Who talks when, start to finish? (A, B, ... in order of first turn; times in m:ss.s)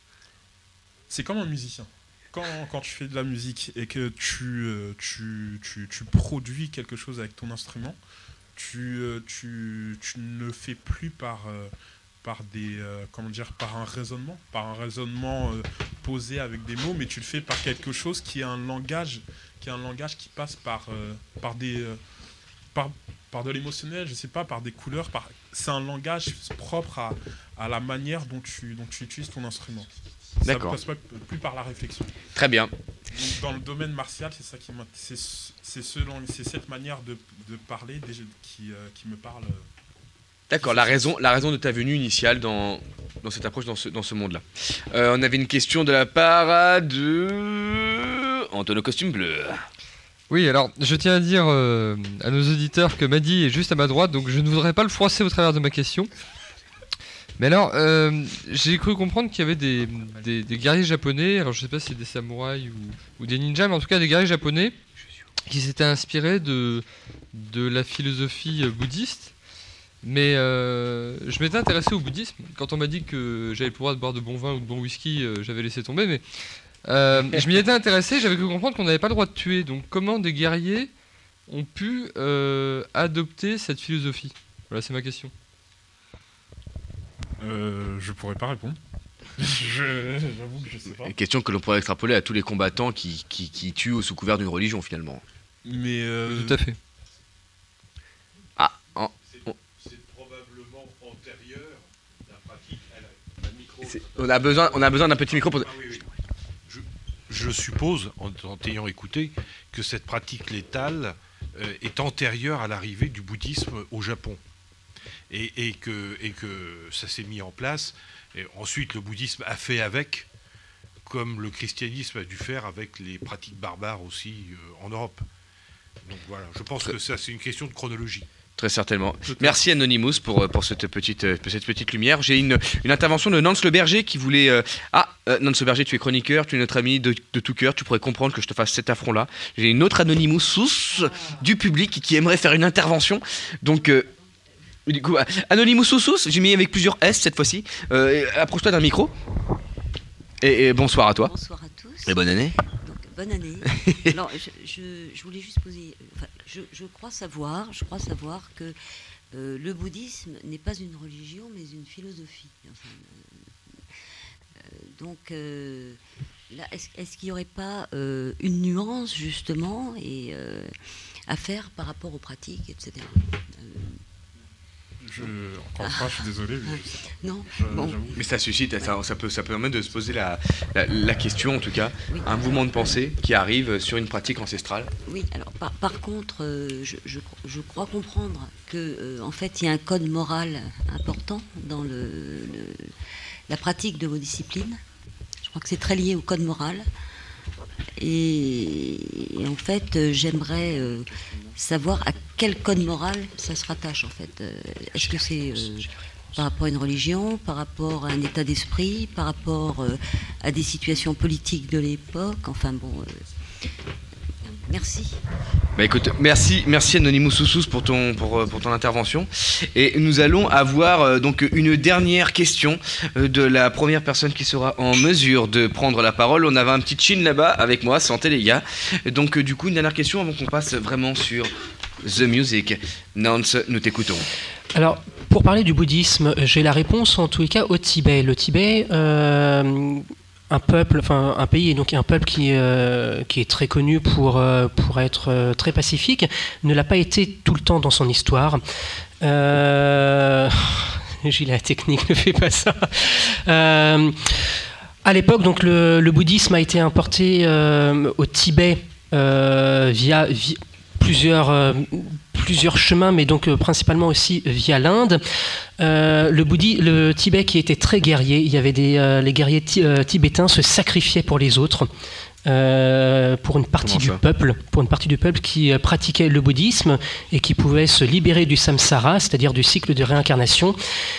0:01.1-0:08.0 A
0:08.6-0:11.7 A
0:12.2-0:22.0 A
0:22.7-0:32.1 A
0:30.5-0:30.8 B
0:32.4-0:32.7 B
0:33.1-0:39.7 A
0:40.5-0:49.6 B
0:40.6-0:41.0 A
0:50.3-0:56.1 C
0:57.4-1:04.8 C
1:05.5-1:09.3 C
1:10.0-1:16.2 C
1:16.8-1:20.9 C
1:21.5-1:25.3 C
1:27.4-1:28.8 A
1:29.4-1:31.1 A
1:31.0-1:35.2 B
1:35.6-1:36.6 A
1:36.3-1:36.8 C
1:38.6-1:39.6 B
1:39.3-1:46.0 D
1:43.9-1:45.7 B
1:46.7-1:54.4 D
1:55.3-2:00.3 D
2:01.1-2:05.3 D
2:06.1-2:08.3 D
2:08.6-2:24.1 B
2:09.3-2:09.6 D
2:24.9-2:29.1 B
2:30.4-2:31.3 B
2:31.2-2:38.8 E
2:32.0-2:32.6 B
2:39.3-2:43.6 E
2:44.6-2:46.0 E
2:46.5-2:50.8 E
2:51.3-2:54.0 E
2:55.0-2:56.9 A
2:55.2-2:59.0 E
2:57.5-2:58.2 A
2:58.2-3:04.9 B
3:02.1-3:03.1 E
3:05.1-3:12.9 E
3:13.5-3:14.8 E
3:15.4-3:16.9 E
3:18.0-3:33.3 E
3:34.5-3:35.2 E
3:35.8-3:51.5 B
3:52.0-3:54.3 B
3:54.7-4:08.6 F
4:09.2-4:14.4 F
4:15.0-4:31.9 F
4:32.4-4:40.8 F
4:33.8-4:34.2 B